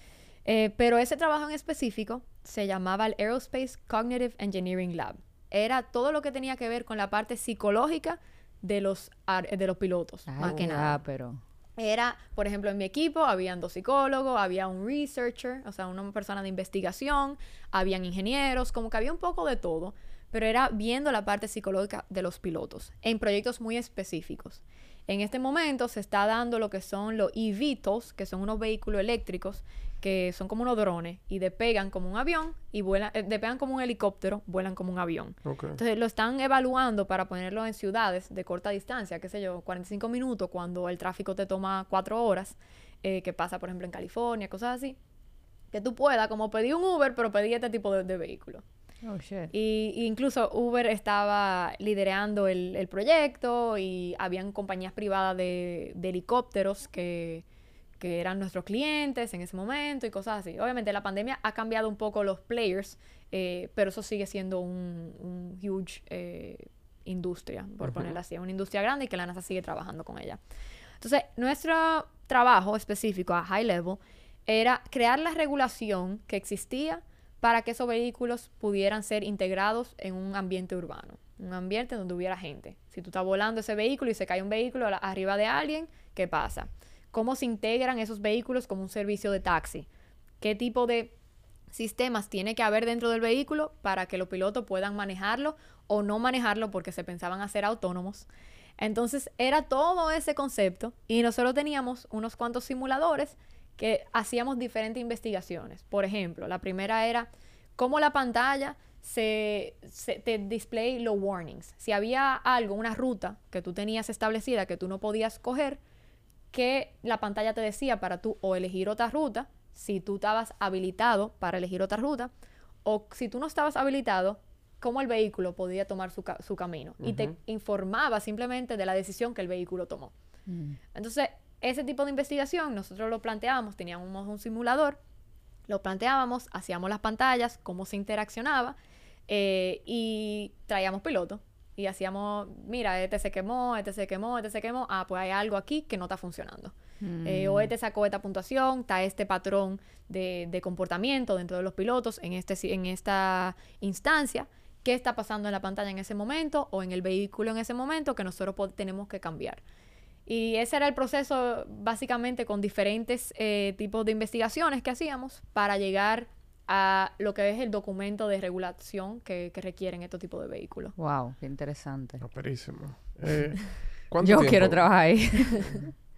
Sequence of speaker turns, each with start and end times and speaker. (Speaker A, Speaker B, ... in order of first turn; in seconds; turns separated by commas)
Speaker A: 0.4-11.0, Speaker B: 10.3-11.4, Speaker A: 11.8-45.0, Speaker C: 35.4-35.8, Speaker A: 45.7-48.6, Speaker B: 49.0-49.5, Speaker A: 49.5-57.4, Speaker A: 58.0-70.4, Speaker C: 67.8-68.1, Speaker A: 71.0-89.9, Speaker A: 90.4-91.1, Speaker A: 91.7-98.3, Speaker A: 98.8-115.8, Speaker A: 116.5-122.3, Speaker A: 122.8-130.1, Speaker C: 127.0-127.3, Speaker B: 130.5-130.8, Speaker A: 130.9-135.0, Speaker A: 135.7-138.8, Speaker A: 139.3-159.6, Speaker B: 147.0-147.7, Speaker A: 160.2-170.9, Speaker B: 171.0-172.2, Speaker C: 172.2-174.8, Speaker B: 174.2-175.9